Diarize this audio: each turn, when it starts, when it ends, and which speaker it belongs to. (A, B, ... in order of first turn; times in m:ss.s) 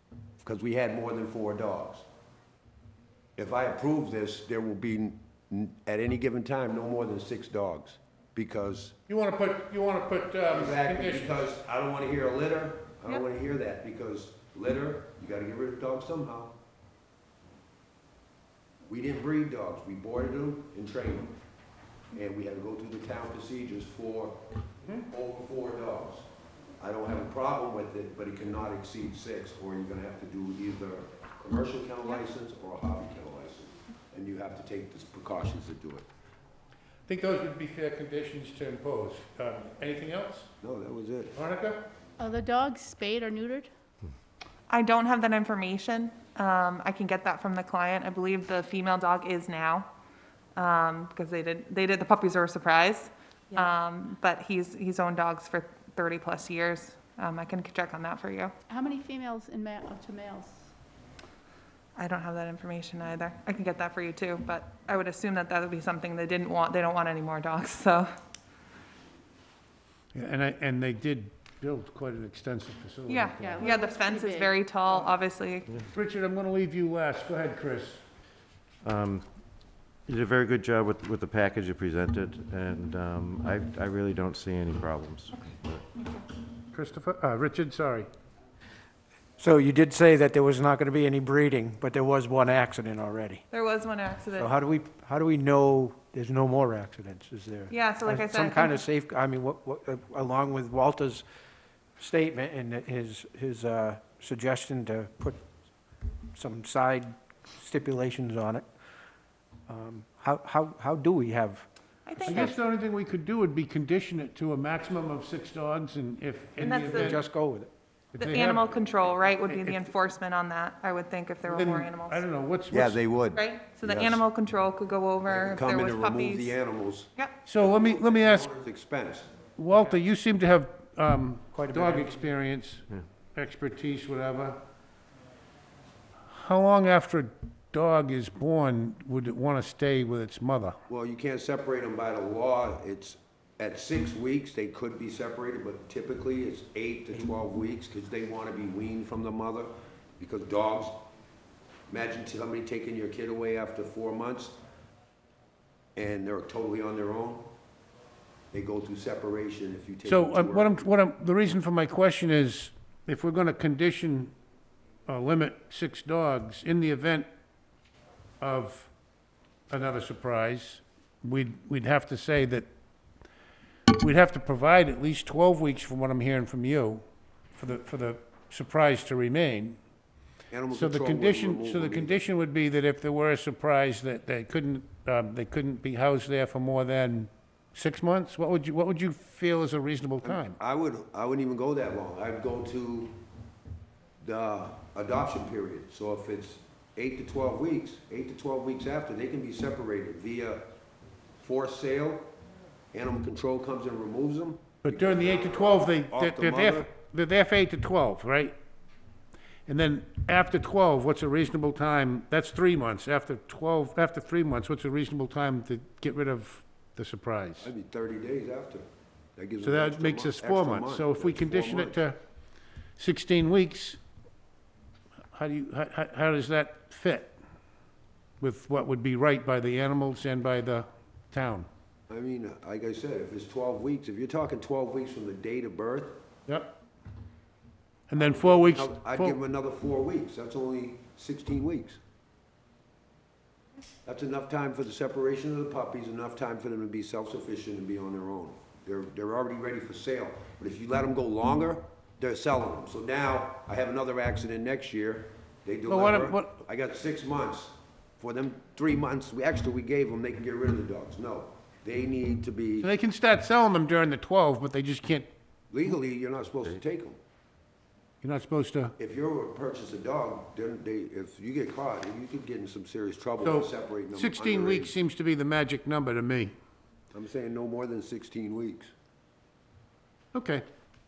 0:00.4-0:02.0 A
0:03.4-0:09.0 A
0:09.1-0:11.4 B
0:10.5-0:16.5 A
0:18.9-0:21.3 A
0:22.1-0:24.4 A
0:24.9-0:26.2 A
0:26.8-0:36.1 A
0:37.1-0:40.5 B
0:40.6-0:41.4 A
0:41.4-0:41.8 B
0:42.3-0:43.6 C
0:44.7-0:49.9 D
0:50.6-0:58.5 D
0:58.8-1:00.5 C
1:02.0-1:08.1 D
1:10.1-1:13.7 B
1:13.1-1:15.7 D
1:13.6-1:14.4 C
1:15.9-1:18.0 B
1:18.8-1:19.3 E
1:20.1-1:25.9 E
1:25.4-1:26.2 D
1:26.7-1:28.1 B
1:29.4-1:33.4 F
1:33.5-1:34.5 D
1:34.4-1:41.2 F
1:37.7-1:38.8 D
1:42.0-1:45.4 F
1:46.3-1:48.6 F
1:49.7-1:52.6 F
1:52.1-1:52.6 D
1:52.2-1:57.2 B
1:56.6-1:57.2 D
1:56.6-1:57.7 F
1:58.2-1:58.7 B
1:58.2-2:02.2 D
1:59.4-1:59.9 B
2:01.4-2:03.0 B
2:02.7-2:04.2 A
2:03.4-2:06.6 D
2:05.3-2:09.3 A
2:07.5-2:08.5 B
2:09.6-2:14.6 B
2:11.5-2:12.3 F
2:16.3-2:20.8 B
2:20.9-2:31.0 A
2:31.9-2:34.6 A
2:36.0-2:37.5 A
2:38.5-2:40.8 A
2:40.0-2:44.3 B
2:45.1-2:47.3 B
2:48.4-2:48.9 B
2:49.7-2:52.7 B
2:54.0-2:59.8 B
3:00.5-3:02.2 A
3:00.7-3:10.6 B
3:10.2-3:13.1 A
3:14.2-3:20.6 A
3:21.4-3:22.3 A
3:22.9-3:26.9 A
3:24.8-3:28.6 B
3:29.7-3:37.7 B
3:37.6-3:38.9 A
3:39.4-3:42.0 A
3:39.6-3:42.2 B
3:43.0-3:44.0 B
3:45.3-3:47.4 B
3:48.4-3:51.7 B
3:52.1-3:56.2 A
3:56.5-3:56.7 B
3:58.1-3:59.4 B
3:58.1-4:02.0 A
4:04.0-4:22.9 A
4:15.9-4:16.6 B
4:22.8-4:25.3 B
4:25.7-4:27.2 A
4:28.2-4:28.9 B
4:29.0-4:35.0 A
4:33.4-4:36.6 B
4:37.1-4:38.9 A
4:40.3-4:40.6 B